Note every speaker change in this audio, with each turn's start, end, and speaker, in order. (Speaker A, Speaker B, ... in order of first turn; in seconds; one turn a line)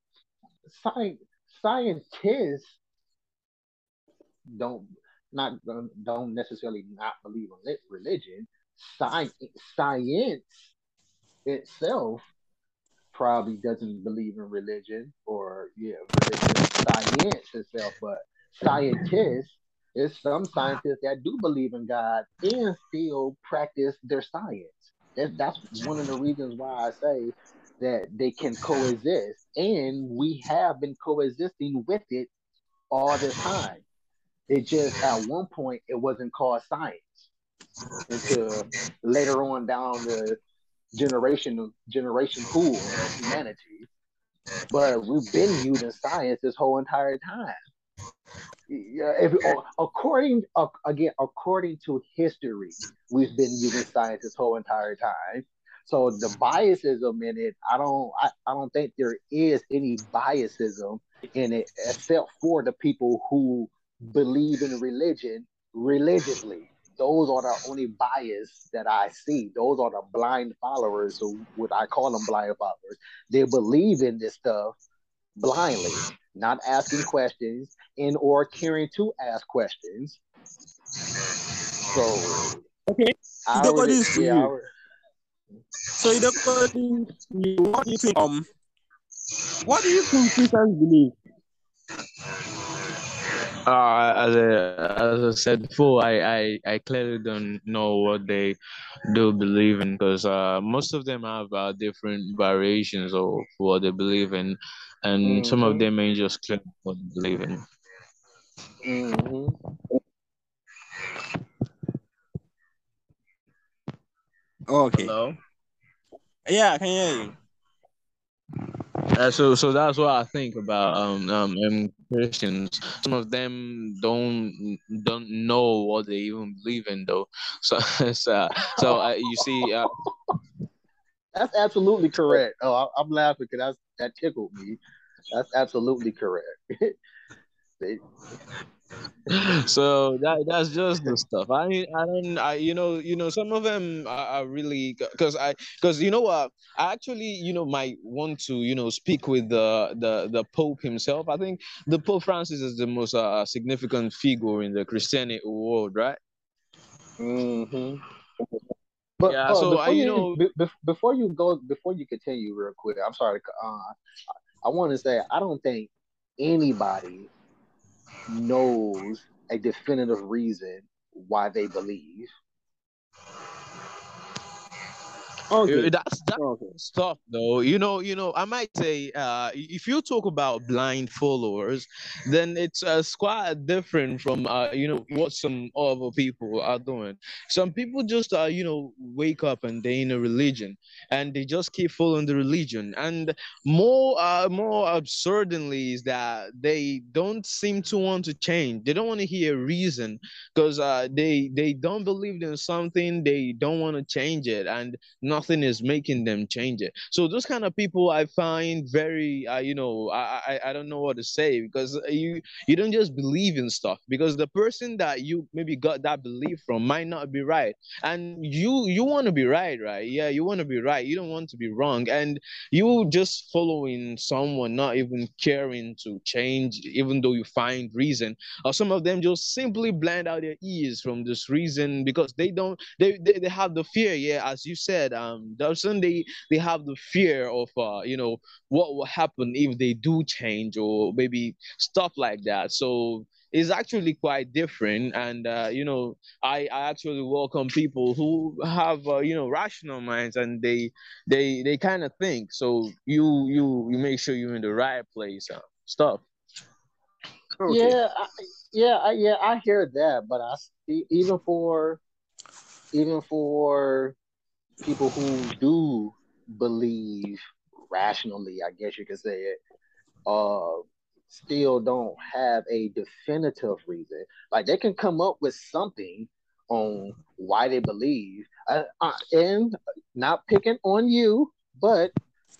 Speaker A: 0.7-2.8
Speaker A: 4.5-10.6
Speaker A: 11.5-12.2
Speaker A: 13.1-32.3
Speaker A: 32.9-33.8
Speaker A: 34.5-37.3
Speaker A: 38.1-40.4
Speaker A: 40.9-43.9
Speaker A: 44.7-47.6
Speaker A: 48.7-74.8
Speaker A: 75.4-80.2
Speaker A: 81.9-82.6
Speaker B: 82.9-84.5
Speaker A: 83.5-84.7
Speaker B: 86.0-88.5
Speaker B: 89.6-91.1
Speaker C: 93.7-98.6
Speaker C: 99.1-107.6
Speaker A: 105.2-105.8
Speaker A: 108.8-109.5
Speaker B: 114.7-115.1
Speaker C: 114.9-115.4
Speaker B: 116.5-117.3
Speaker C: 119.2-129.9
Speaker A: 131.3-134.8
Speaker A: 135.3-137.0
Speaker C: 139.3-156.2
Speaker A: 157.2-158.0
Speaker A: 159.2-163.9
Speaker C: 159.3-160.4
Speaker A: 164.6-167.3
Speaker A: 168.3-172.3
Speaker B: 175.5-176.7
Speaker C: 175.7-256.2
Speaker B: 257.6-258.0
Speaker A: 257.7-262.0
Speaker A: 262.9-264.1
Speaker A: 264.8-269.6
Speaker A: 270.3-282.1